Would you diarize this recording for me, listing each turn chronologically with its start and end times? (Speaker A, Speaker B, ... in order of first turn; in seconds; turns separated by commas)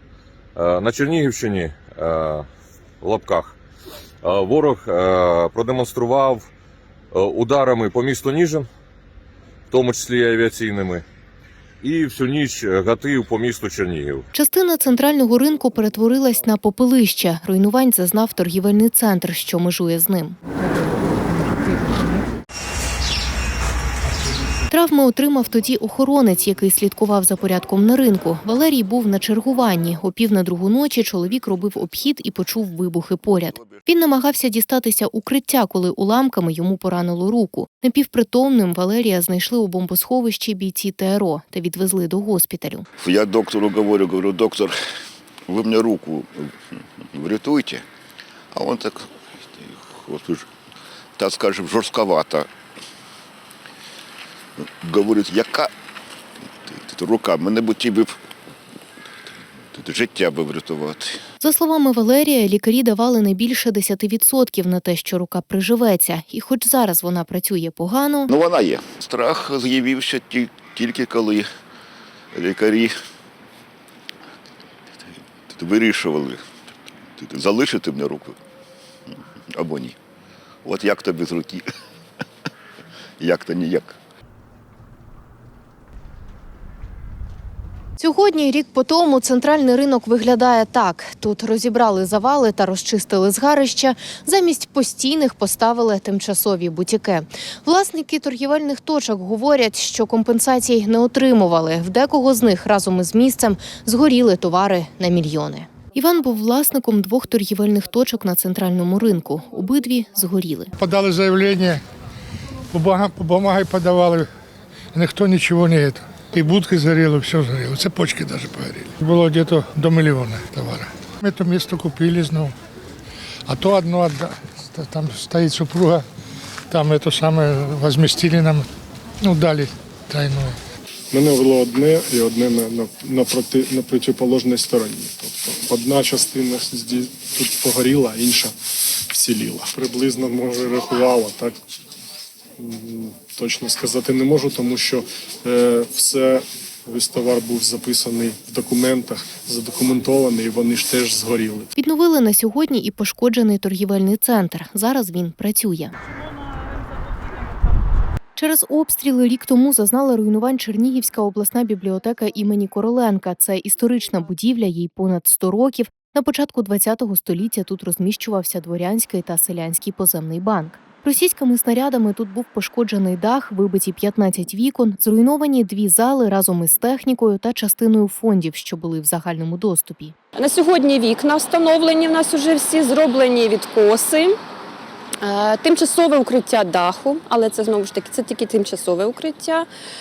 Speaker A: 0.6-2.5, Speaker A: 3.0-3.6, Speaker A: 4.2-6.5, Speaker A: 7.1-8.7, Speaker A: 9.7-11.0, Speaker A: 11.8-14.3, Speaker B: 14.3-20.4, Speaker B: 24.7-42.9, Speaker C: 43.0-44.8, Speaker C: 45.5-46.6, Speaker C: 47.1-47.9, Speaker C: 48.5-50.5, Speaker C: 51.2-52.5, Speaker C: 54.6-55.7, Speaker C: 56.6-58.2, Speaker C: 59.7-61.2, Speaker B: 61.4-68.3, Speaker C: 68.3-71.5, Speaker C: 72.3-73.0, Speaker C: 75.5-76.4, Speaker C: 77.2-78.4, Speaker C: 79.5-80.0, Speaker C: 80.6-81.7, Speaker C: 83.2-84.0, Speaker B: 88.0-110.7, Speaker D: 110.8-111.8, Speaker D: 112.7-114.3, Speaker D: 114.9-122.5, Speaker D: 123.5-126.0, Speaker D: 126.7-128.7, Speaker D: 129.2-130.6, Speaker E: 131.1-138.5, Speaker E: 139.1-141.6, Speaker E: 142.7-151.7, Speaker B: 151.8-155.9, Speaker B: 158.4-180.2, Speaker F: 180.4-184.4, Speaker F: 185.2-189.7